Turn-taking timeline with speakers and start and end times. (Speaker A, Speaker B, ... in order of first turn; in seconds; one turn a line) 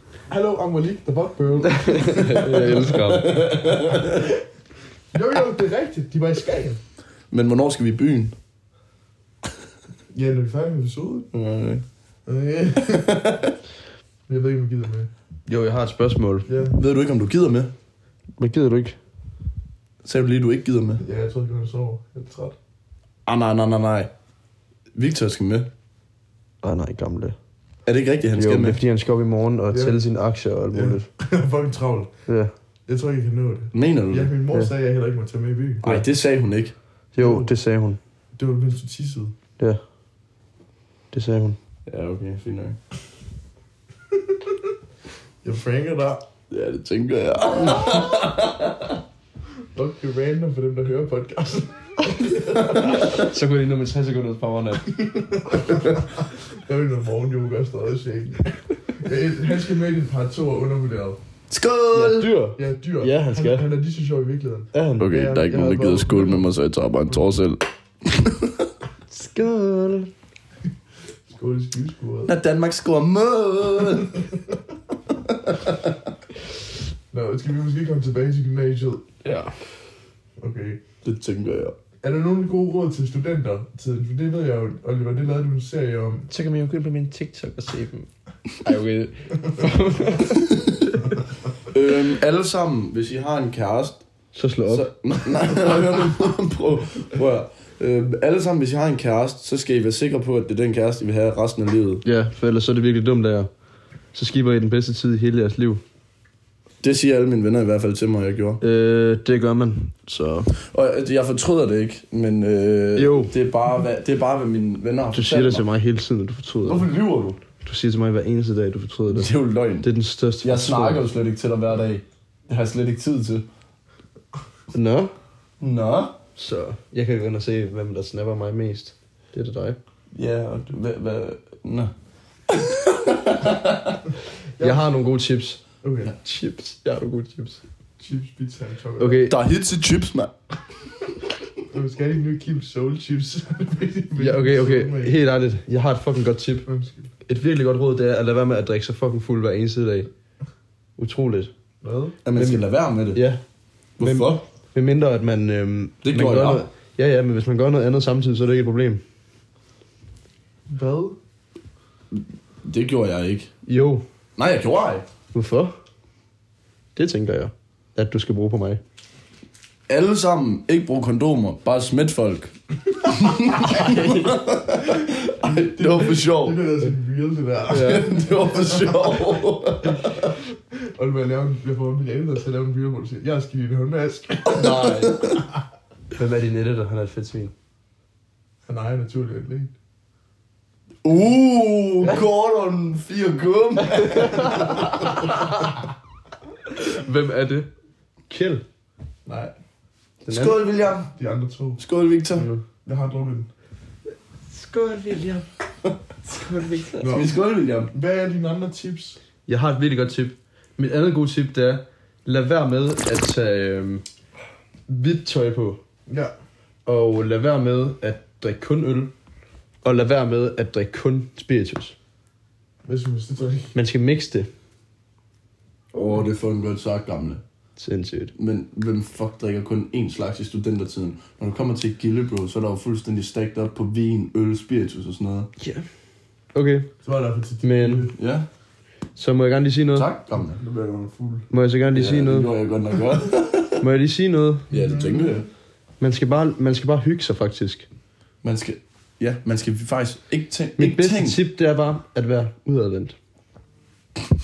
Speaker A: 0.3-3.3
Speaker B: 1.7-3.4
Speaker C: 2.3-4.3
Speaker A: 3.9-4.2
Speaker A: 5.1-6.8
Speaker C: 7.3-8.3
Speaker A: 10.1-11.3
Speaker C: 11.3-11.8
Speaker A: 12.2-13.4
Speaker C: 12.9-13.5
Speaker A: 14.3-15.1
Speaker B: 15.5-16.5
Speaker A: 16.4-16.8
Speaker C: 16.7-17.7
Speaker B: 18.4-19.0
Speaker C: 20.0-21.0
Speaker A: 21.0-22.6
Speaker C: 23.2-24.1
Speaker C: 24.9-25.7
Speaker B: 26.6-27.4
Speaker C: 27.8-28.8
Speaker B: 28.4-31.1
Speaker A: 29.7-30.0
Speaker A: 30.7-32.1
Speaker B: 32.3-32.5
Speaker A: 32.9-35.9
Speaker C: 33.7-34.3
Speaker C: 35.8-36.7
Speaker B: 37.1-38.0
Speaker A: 37.2-37.5
Speaker A: 38.4-39.3
Speaker B: 41.1-41.6
Speaker C: 41.9-42.8
Speaker A: 45.4-46.2
Speaker C: 46.5-49.0
Speaker A: 49.7-52.9
Speaker B: 52.8-54.9
Speaker A: 55.0-61.2
Speaker C: 61.5-62.4
Speaker B: 61.9-63.7
Speaker A: 62.5-66.5
Speaker B: 64.7-65.1
Speaker C: 65.0-68.7
Speaker B: 69.1-70.1
Speaker A: 71.3-72.3
Speaker C: 72.2-74.2
Speaker A: 77.1-79.0
Speaker B: 79.2-79.6
Speaker A: 80.4-80.8
Speaker C: 81.0-81.7
Speaker A: 82.0-86.3
Speaker B: 86.3-88.1
Speaker B: 88.6-91.0
Speaker C: 91.7-94.0
Speaker B: 94.3-94.9
Speaker C: 94.7-102.0
Speaker B: 102.0-103.5
Speaker B: 104.1-105.8
Speaker C: 106.8-108.6
Speaker B: 108.6-110.5
Speaker C: 110.6-115.6
Speaker B: 113.0-113.3
Speaker B: 115.1-116.9
Speaker C: 116.6-117.4
Speaker B: 117.6-121.0
Speaker C: 119.1-119.9
Speaker C: 120.4-123.5
Speaker B: 124.7-125.1
Speaker C: 125.6-126.2
Speaker B: 126.3-129.8
Speaker C: 130.1-131.9
Speaker C: 132.5-134.0
Speaker A: 134.6-134.8
Speaker B: 134.6-135.6
Speaker A: 135.8-136.1
Speaker B: 136.2-137.6
Speaker A: 138.0-139.3
Speaker B: 139.0-139.4
Speaker C: 139.3-140.3
Speaker A: 141.7-145.2
Speaker B: 144.2-146.7
Speaker A: 146.6-147.1
Speaker B: 147.2-150.1
Speaker B: 151.0-151.5
Speaker A: 151.8-152.2
Speaker C: 152.2-153.2
Speaker B: 152.3-153.4
Speaker C: 154.0-154.4
Speaker B: 154.0-159.0
Speaker C: 156.0-156.7
Speaker A: 160.7-161.2
Speaker C: 162.6-163.5
Speaker B: 163.7-164.0
Speaker C: 164.4-165.1
Speaker B: 165.3-165.8
Speaker B: 166.9-168.8
Speaker C: 169.9-176.6
Speaker B: 173.5-174.4
Speaker A: 175.4-179.0
Speaker B: 177.7-178.1
Speaker C: 177.7-180.3
Speaker A: 180.9-185.2
Speaker B: 184.5-185.2
Speaker C: 184.6-185.3
Speaker B: 186.2-187.5
Speaker A: 188.7-189.7
Speaker C: 191.0-195.2
Speaker B: 194.1-194.7
Speaker B: 196.8-197.7
Speaker B: 198.3-198.6
Speaker A: 199.3-199.5
Speaker B: 200.2-200.6
Speaker C: 200.3-201.1
Speaker A: 200.9-201.8
Speaker C: 201.8-202.5
Speaker B: 202.3-202.6
Speaker A: 202.8-203.5
Speaker B: 204.5-205.4
Speaker B: 206.2-207.0
Speaker C: 207.0-207.9
Speaker A: 207.0-207.3
Speaker A: 207.9-209.2
Speaker B: 209.5-214.0
Speaker B: 214.9-215.8
Speaker A: 216.1-216.3
Speaker B: 216.8-219.1
Speaker B: 219.8-221.9
Speaker A: 222.8-223.7
Speaker B: 223.7-224.5
Speaker C: 225.9-227.4
Speaker B: 227.8-228.3
Speaker C: 228.3-235.5
Speaker B: 235.6-235.8
Speaker B: 236.5-236.9
Speaker A: 237.0-238.2
Speaker B: 237.6-238.1
Speaker C: 238.2-238.5
Speaker B: 239.1-240.1
Speaker C: 239.9-240.6
Speaker A: 240.3-241.5
Speaker B: 241.5-242.5
Speaker C: 241.9-243.8
Speaker B: 243.8-244.7
Speaker C: 244.7-245.4
Speaker A: 244.7-245.4
Speaker B: 246.0-247.8
Speaker C: 248.4-251.4
Speaker B: 250.8-253.2